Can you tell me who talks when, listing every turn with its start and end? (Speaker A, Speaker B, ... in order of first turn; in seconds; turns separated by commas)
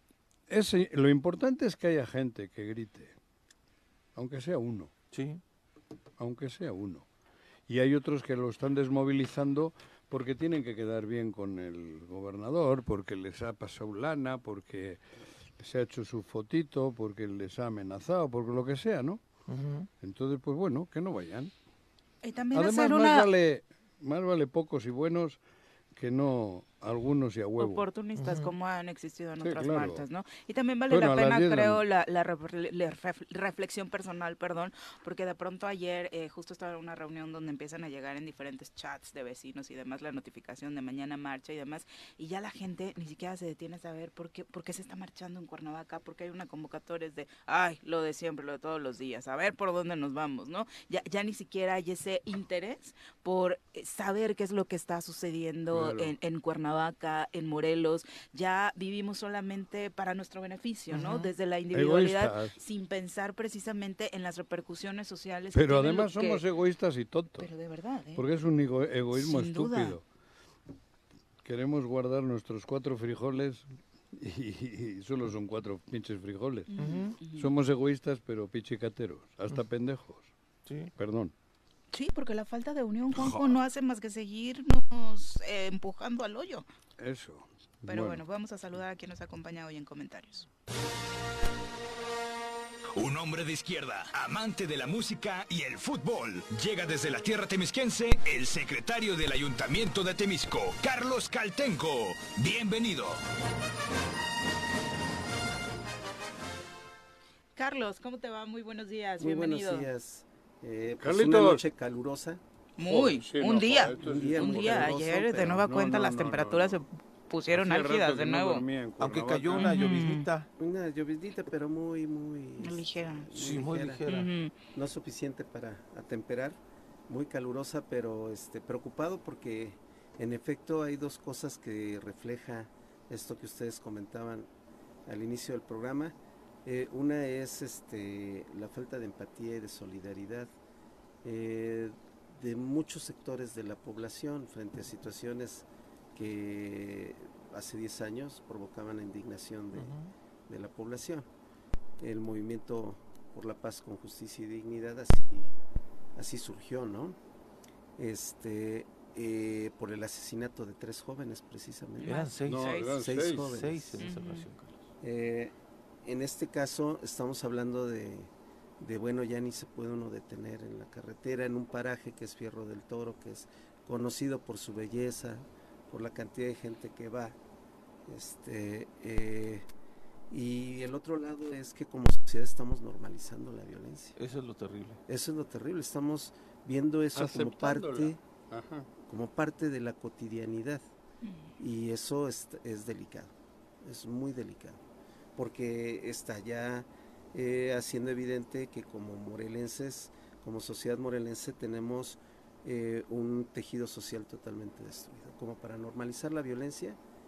Speaker A: 0.5-3.1, Speaker A: 4.2-4.9, Speaker B: 5.1-5.4, Speaker A: 6.2-7.1, Speaker A: 7.7-15.0, Speaker A: 15.6-19.2, Speaker B: 19.5-19.9, Speaker A: 20.0-21.5, Speaker C: 22.2-23.3, Speaker A: 22.5-25.4, Speaker A: 25.9-27.8, Speaker C: 27.6-66.4, Speaker B: 28.2-28.5, Speaker A: 29.4-30.0, Speaker A: 30.9-31.8, Speaker A: 55.7-56.1, Speaker A: 60.9-62.6, Speaker A: 65.5-67.5, Speaker C: 67.4-68.2, Speaker A: 68.2-70.0, Speaker C: 69.2-70.0, Speaker A: 71.4-76.7, Speaker C: 76.7-77.5, Speaker B: 76.8-77.2, Speaker A: 77.3-80.3, Speaker B: 80.7-80.9, Speaker A: 81.0-81.3, Speaker C: 81.9-86.7, Speaker A: 83.1-83.6, Speaker A: 87.0-88.2, Speaker C: 87.9-90.5, Speaker D: 93.0-103.2, Speaker C: 107.6-109.9, Speaker E: 109.2-112.4, Speaker A: 111.0-111.6, Speaker C: 112.8-118.6, Speaker A: 112.8-114.9, Speaker E: 114.0-115.6, Speaker A: 115.5-116.8, Speaker A: 117.5-119.8, Speaker B: 119.0-120.5, Speaker C: 119.5-120.2, Speaker E: 120.6-124.0, Speaker C: 122.6-123.3, Speaker B: 123.3-124.3, Speaker C: 124.1-124.5, Speaker E: 124.7-134.5, Speaker E: 135.1-140.5, Speaker E: 141.2-149.9, Speaker B: 149.7-150.1, Speaker E: 150.5-151.3, Speaker E: 152.0-155.5, Speaker E: 156.2-157.2, Speaker E: 158.0-162.1, Speaker C: 162.0-162.9, Speaker B: 162.0-162.7, Speaker A: 162.5-163.6, Speaker E: 162.9-163.9, Speaker B: 163.4-164.8, Speaker C: 164.0-164.4, Speaker E: 165.0-177.4, Speaker E: 178.1-179.7, Speaker E: 180.3-184.2, Speaker B: 184.2-185.0, Speaker E: 185.1-188.2, Speaker A: 187.1-188.9, Speaker E: 189.1-190.9, Speaker C: 191.2-191.5, Speaker E: 191.6-194.8, Speaker E: 195.4-207.0